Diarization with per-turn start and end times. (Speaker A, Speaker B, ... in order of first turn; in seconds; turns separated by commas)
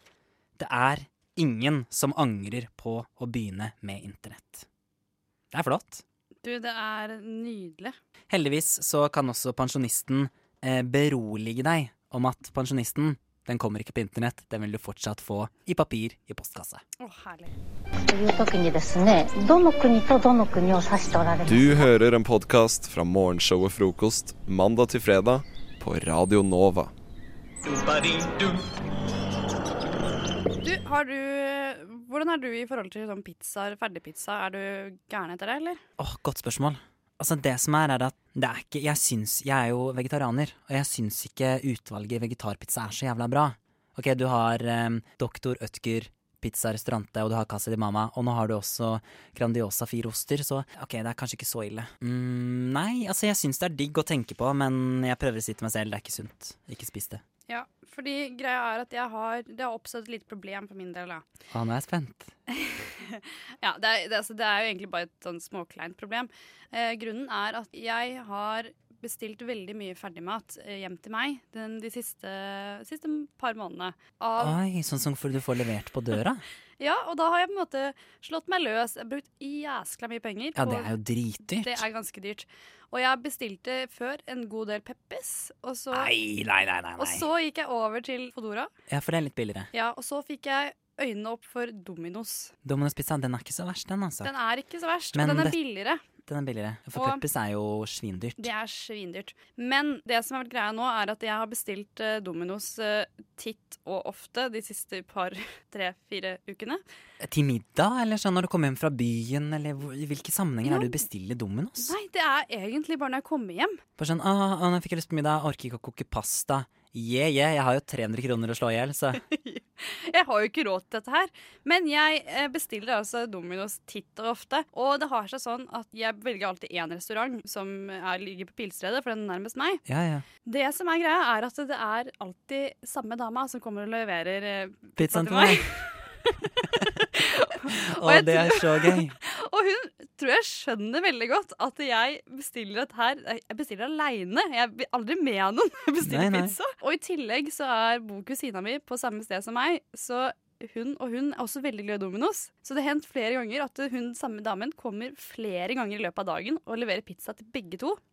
Speaker A: 0.6-4.7, Speaker A: 5.5-6.0, Speaker B: 6.4-8.0, Speaker A: 8.3-16.8, Speaker B: 17.0-17.5, Speaker C: 18.1-21.8, Speaker D: 21.5-26.9, Speaker B: 30.6-35.8, Speaker A: 36.0-57.2, Speaker B: 57.5-61.2, Speaker A: 61.5-62.3, Speaker B: 62.5-74.6, Speaker A: 74.4-76.4, Speaker B: 76.8-80.9, Speaker A: 80.5-81.8, Speaker B: 81.6-86.1, Speaker A: 85.9-87.2, Speaker B: 87.0-88.7, Speaker A: 88.9-89.7, Speaker B: 89.7-92.5, Speaker A: 92.7-94.3, Speaker B: 94.2-96.0, Speaker A: 95.1-95.6, Speaker A: 96.3-98.5, Speaker B: 97.0-97.2, Speaker B: 98.4-106.8, Speaker A: 107.2-111.9, Speaker B: 110.7-110.9, Speaker B: 111.8-113.8, Speaker A: 114.0-119.2, Speaker B: 119.3-129.8, Speaker A: 129.9-130.2, Speaker B: 130.4-135.7, Speaker A: 135.0-135.6, Speaker B: 137.2-158.0, Speaker A: 137.7-139.2, Speaker A: 146.0-146.6